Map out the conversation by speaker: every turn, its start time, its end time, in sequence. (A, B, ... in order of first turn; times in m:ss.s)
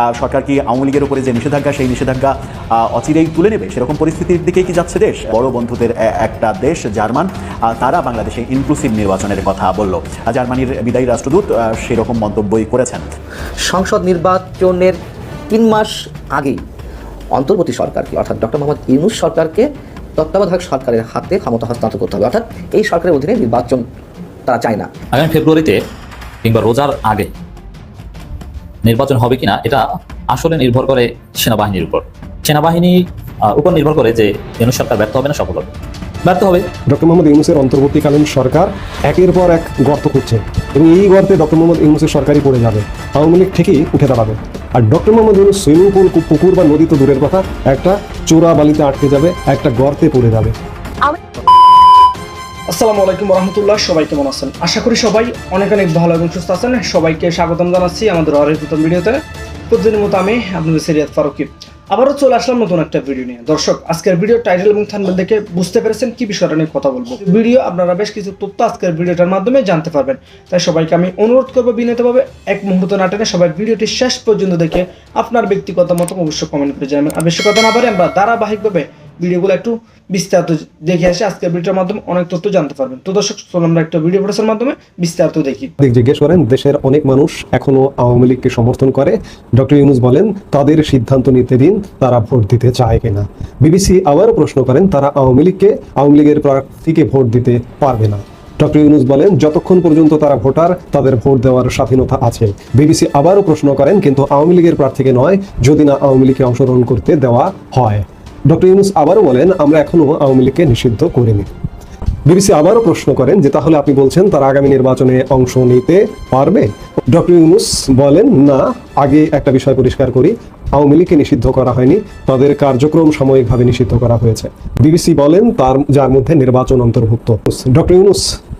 0:00.2-0:13.0 A
0:13.7-0:15.0 B
0:15.5-0:16.6 B
0:17.3-0:23.8 B
0:24.5-0:24.9 B
0:25.1-0:25.8 C
0:26.4-0:27.3 C
0:28.8-0:33.0 C
0:33.5-0:35.7 C
0:36.2-0:36.6 C
0:36.9-0:50.5 D
0:52.7-0:59.2 E
0:59.7-1:25.7 E
1:25.8-1:51.5 D
1:52.2-2:08.4 D